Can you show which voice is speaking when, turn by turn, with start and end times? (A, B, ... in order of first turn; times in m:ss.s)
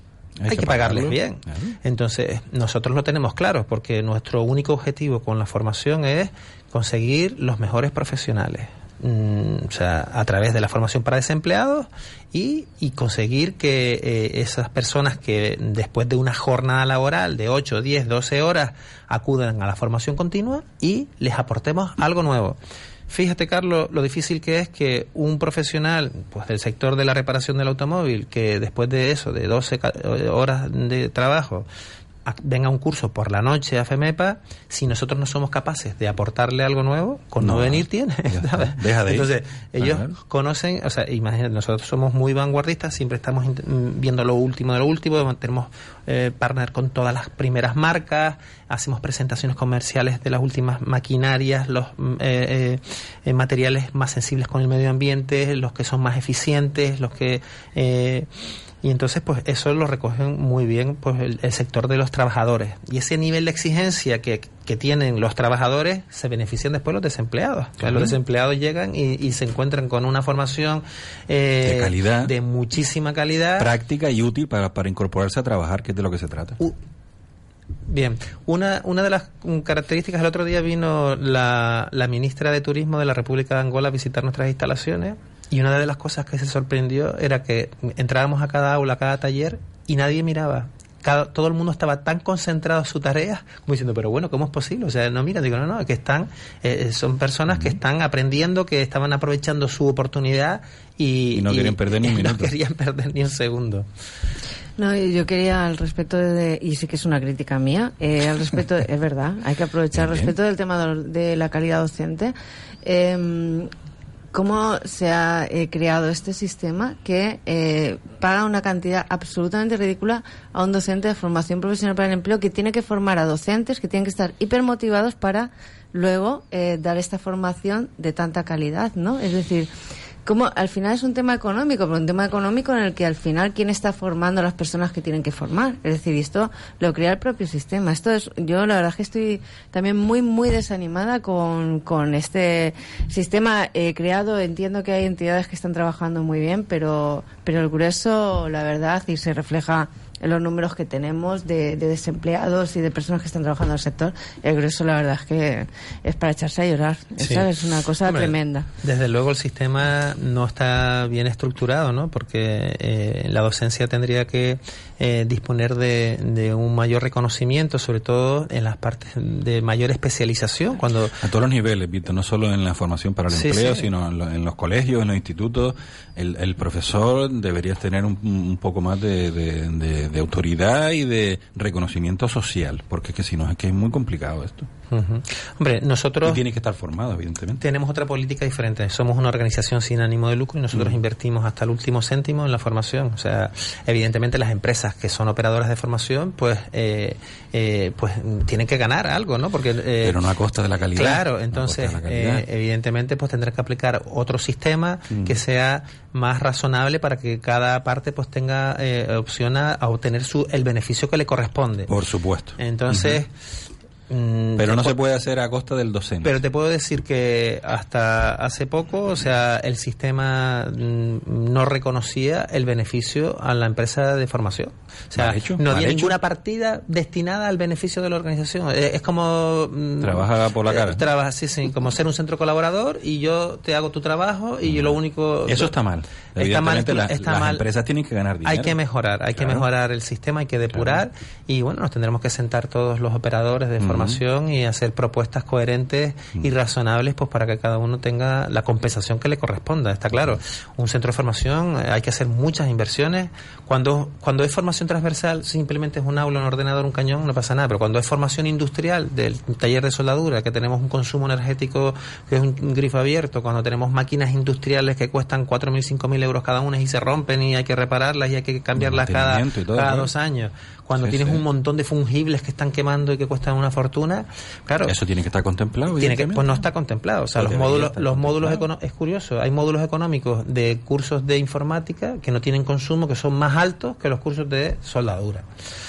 0:00.4-0:01.8 A
0:00.5-0:22.6 B
0:23.1-0:31.7 B
0:32.2-0:58.3 B
0:37.4-0:40.2 A
0:58.8-1:13.7 B
1:07.8-1:08.1 A
1:11.6-1:12.3 A
1:13.6-1:16.6 A
1:17.9-1:43.9 B
1:41.3-1:42.5 A
1:44.8-1:53.7 C
1:49.9-1:50.3 A
1:54.3-2:09.7 C
2:10.3-2:38.7 C
2:37.2-2:37.5 B
2:38.0-2:51.2 B
2:51.2-3:04.7 A
2:53.3-2:53.9 B
3:04.9-3:06.4 B
3:06.2-3:07.6 A
3:07.6-3:20.2 B
3:10.7-3:11.0 A
3:20.0-3:22.4 A
3:21.0-3:31.9 B
3:25.1-3:25.4 A
3:31.9-3:33.2 A
3:32.6-3:33.3 B
3:34.1-3:35.0 B
3:34.6-3:36.4 A
3:36.2-3:55.7 B
3:45.2-3:46.2 A
3:50.0-3:51.0 A
3:54.6-3:58.8 A
3:56.4-3:57.6 B
3:58.4-4:35.0 B
3:59.3-3:59.7 A
4:00.7-4:01.0 A
4:03.8-4:04.2 A
4:28.8-4:30.1 A
4:31.0-4:31.4 A
4:34.9-4:36.7 A
4:36.0-4:45.5 B
4:37.4-4:38.7 A